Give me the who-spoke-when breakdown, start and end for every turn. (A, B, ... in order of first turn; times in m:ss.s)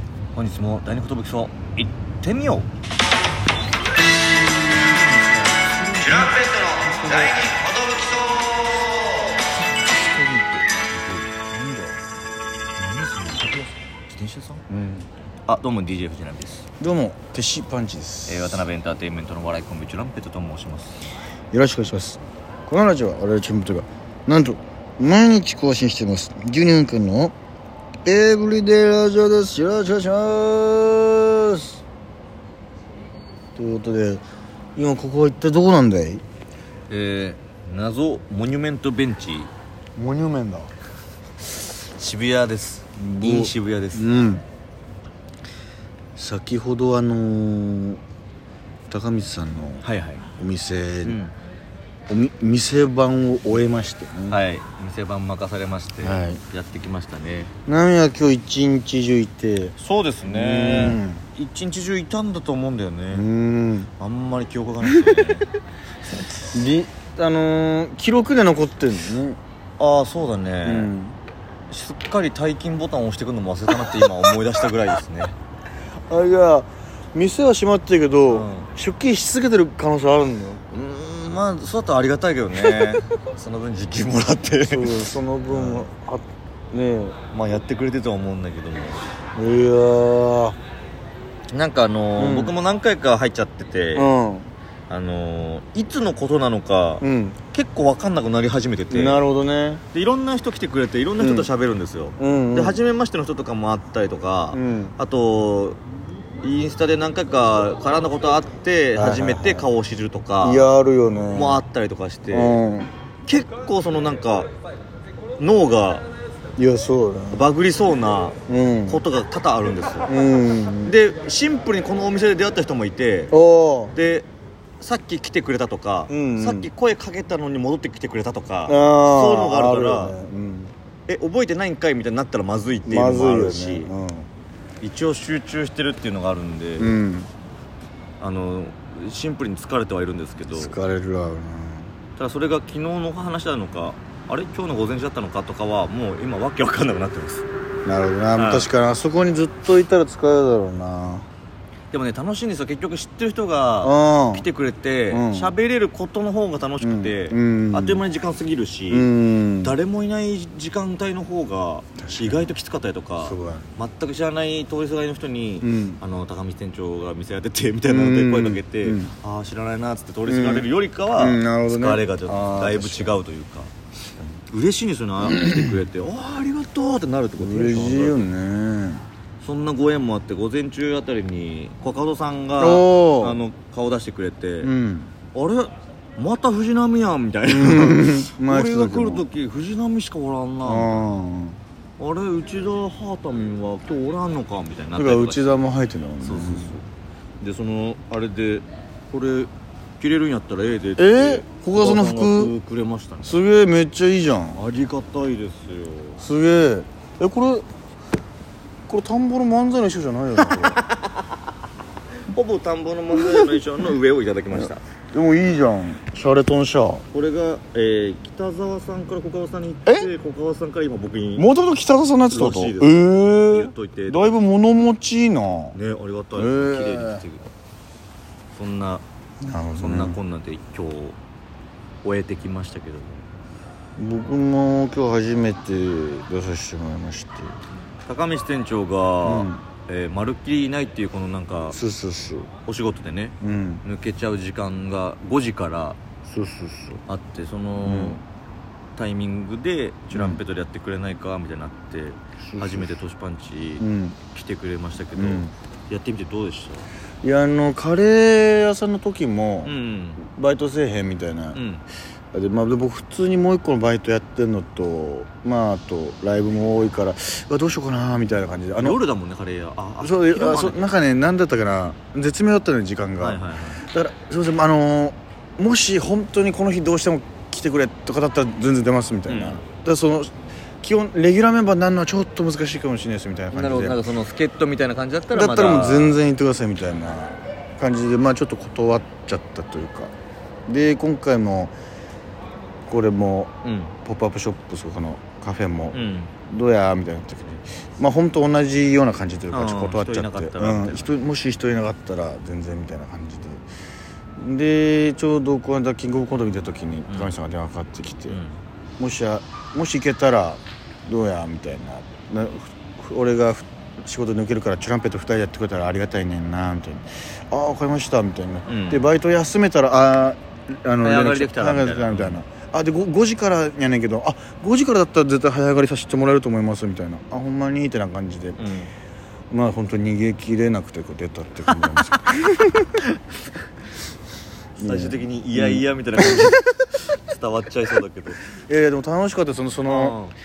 0:00.3-0:02.7 A
0:04.7-0:07.6 B
0:06.0-0:09.4 A
0:09.7-0:10.8 B
0:10.9-0:11.3 A
0:11.3-0:12.0 B
0:12.8-0:14.6 A
0:14.7-0:15.1 B
0:15.5-0:16.7 A
0:16.8-0:18.6 B
0:18.3-0:21.0 A
0:21.5-0:27.4 B
0:28.0-0:31.8 B
0:33.6-0:34.2 B
0:34.8-0:36.2 B
0:36.9-0:39.5 A
0:40.0-0:40.7 B
0:41.8-0:44.1 A
0:43.0-0:44.4 B
0:46.2-0:48.0 B
0:48.9-0:49.9 B
0:49.8-0:50.3 A
0:50.4-0:51.2 B
0:51.0-0:51.3 A
0:52.1-0:54.4 B
0:54.3-0:57.5 A
0:56.0-0:56.4 B
0:57.7-1:01.2 B
0:59.8-1:03.3 A
1:03.1-1:03.9 B
1:04.0-1:05.5 A
1:06.5-1:09.4 B
1:09.8-1:10.9 A
1:10.6-1:11.2 B
1:11.7-1:15.4 A
1:16.1-1:20.6 B
1:18.3-1:18.7 A
1:20.7-1:25.9 A
1:24.6-1:27.2 B
1:27.3-1:29.0 A
1:29.4-1:30.6 B
1:31.5-1:34.1 A
1:32.2-1:32.6 B
1:34.0-1:34.5 B
1:34.9-1:39.2 A
1:37.0-1:37.4 B
1:38.9-1:39.8 B
1:39.9-1:45.8 A
1:41.2-1:41.5 B
1:42.2-1:42.8 B
1:44.5-1:45.0 B
1:46.4-1:50.7 A
1:49.0-1:49.7 B
1:50.4-1:51.6 B
1:51.3-1:52.6 A
1:52.3-1:52.9 B
1:53.3-1:54.5 A
1:55.4-1:56.0 A
1:56.6-1:57.5 B
1:57.3-2:00.1 A
1:58.5-1:59.0 B
2:00.1-2:01.0 B
2:00.8-2:03.3 A
2:03.3-2:04.0 B
2:03.9-2:04.3 A
2:04.8-2:10.2 A
2:06.1-2:06.7 B
2:08.7-2:10.7 B
2:11.1-2:13.9 A
2:12.8-2:14.3 B
2:14.8-2:17.0 A
2:16.8-2:17.3 B
2:18.2-2:20.8 A
2:20.5-2:21.9 B
2:22.2-2:27.5 A
2:27.8-2:31.3 B
2:28.4-2:28.7 A
2:31.9-2:39.1 A
2:33.8-2:34.5 B
2:35.1-2:35.5 B
2:36.8-2:38.0 B
2:38.9-2:39.8 B
2:39.6-2:53.7 A
2:42.0-2:42.4 B
2:43.2-2:43.7 B
2:45.6-2:46.0 B
2:47.9-2:49.1 B
2:50.3-2:53.2 B
2:54.5-2:58.2 A
2:55.2-2:55.7 B
2:57.4-2:59.0 B
2:59.4-3:04.7 A
3:02.6-3:03.4 B
3:04.6-3:05.1 B
3:05.3-3:11.0 A
3:07.5-3:09.3 B
3:10.6-3:11.6 B
3:12.0-3:15.6 A
3:15.0-3:16.8 B
3:16.2-3:16.9 A
3:17.4-3:23.4 A
3:21.0-3:22.6 B
3:23.2-3:24.6 B
3:24.5-3:26.3 A
3:26.2-3:27.7 B
3:28.9-3:30.8 B
3:30.4-3:31.3 A
3:32.3-3:34.8 A
3:33.1-3:33.6 B
3:34.6-3:37.0 B
3:37.1-3:41.5 A
3:39.9-3:40.1 B
3:41.4-3:45.8 B
3:42.3-3:44.4 A
3:45.7-3:47.5 A
3:46.4-3:47.2 B
3:48.5-3:49.0 A
3:49.4-3:50.2 B
3:49.8-3:51.2 A
3:52.0-3:53.2 A
3:54.0-3:57.6 B
3:58.1-4:01.8 A
3:59.2-3:59.6 B
4:01.7-4:02.5 B
4:02.6-4:06.0 A
4:03.4-4:03.8 B
4:06.3-4:07.0 B
4:07.1-4:08.2 A
4:07.8-4:08.2 B
4:09.0-4:16.9 A
4:10.1-4:10.4 B
4:12.4-4:13.0 B
4:13.8-4:14.2 B
4:15.1-4:15.5 B
4:17.2-4:21.6 B
4:19.6-4:20.2 A
4:21.5-4:21.8 A
4:22.3-4:29.0 B
4:28.8-4:30.9 A
4:30.0-4:44.0 B
4:33.2-4:33.8 A
4:39.3-4:39.6 A
4:43.5-4:46.2 A
4:45.3-4:50.1 B
4:50.7-4:51.7 B
4:52.9-4:53.5 B
4:53.6-4:54.0 A
4:54.0-4:56.0 B
4:55.9-4:56.3 A
4:56.5-5:03.6 B
4:59.5-5:01.1 A
5:04.4-5:08.4 B
5:07.1-5:07.3 A
5:08.3-5:08.6 A
5:09.0-5:28.6 B
5:18.7-5:19.1 A
5:21.0-5:22.4 A
5:28.6-5:28.9 A
5:29.5-5:33.0 B
5:34.8-5:38.4 A
5:34.8-5:36.6 B
5:38.6-5:40.2 B
5:39.9-5:40.4 A